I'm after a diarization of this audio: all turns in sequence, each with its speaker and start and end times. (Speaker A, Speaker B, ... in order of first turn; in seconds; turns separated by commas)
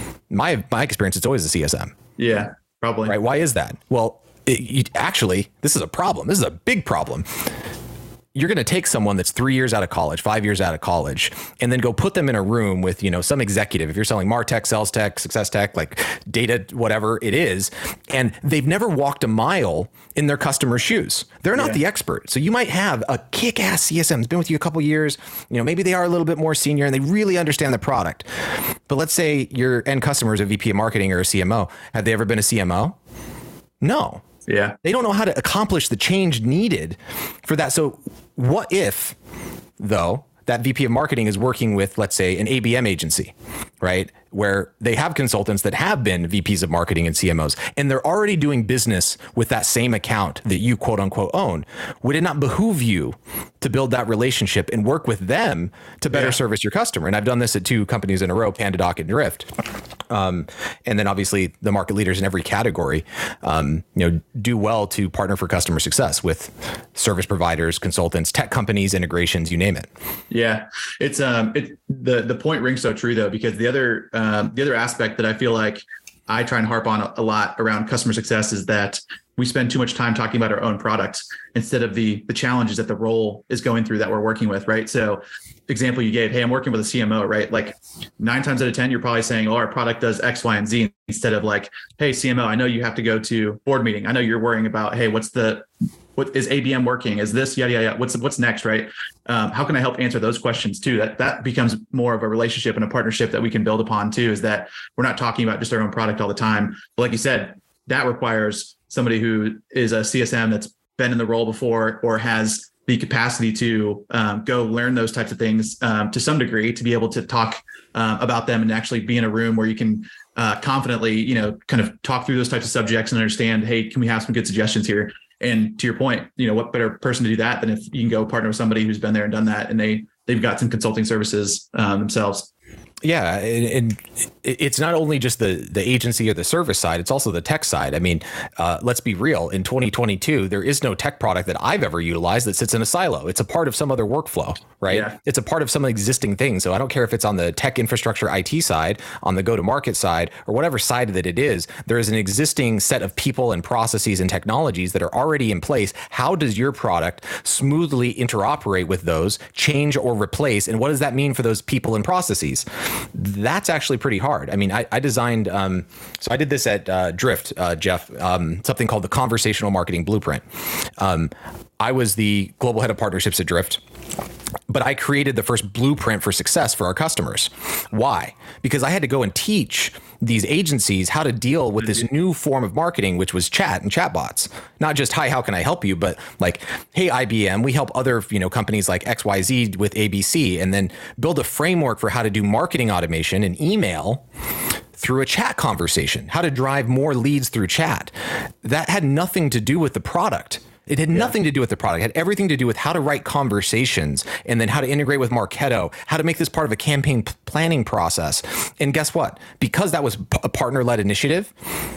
Speaker A: 0.3-1.9, Speaker B: 2.2-3.1, Speaker A: 3.0-7.3, Speaker A: 8.3-28.3, Speaker B: 21.6-21.8, Speaker A: 28.9-33.0, Speaker A: 33.8-34.2, Speaker B: 34.5-34.8, Speaker A: 34.8-39.1, Speaker A: 39.8-59.5, Speaker B: 56.1-56.4, Speaker A: 60.1-69.9, Speaker B: 70.3-132.5, Speaker A: 133.0-170.4, Speaker B: 144.9-145.2, Speaker A: 171.0-173.8, Speaker A: 174.7-194.2, Speaker A: 195.0-198.1, Speaker A: 198.6-211.5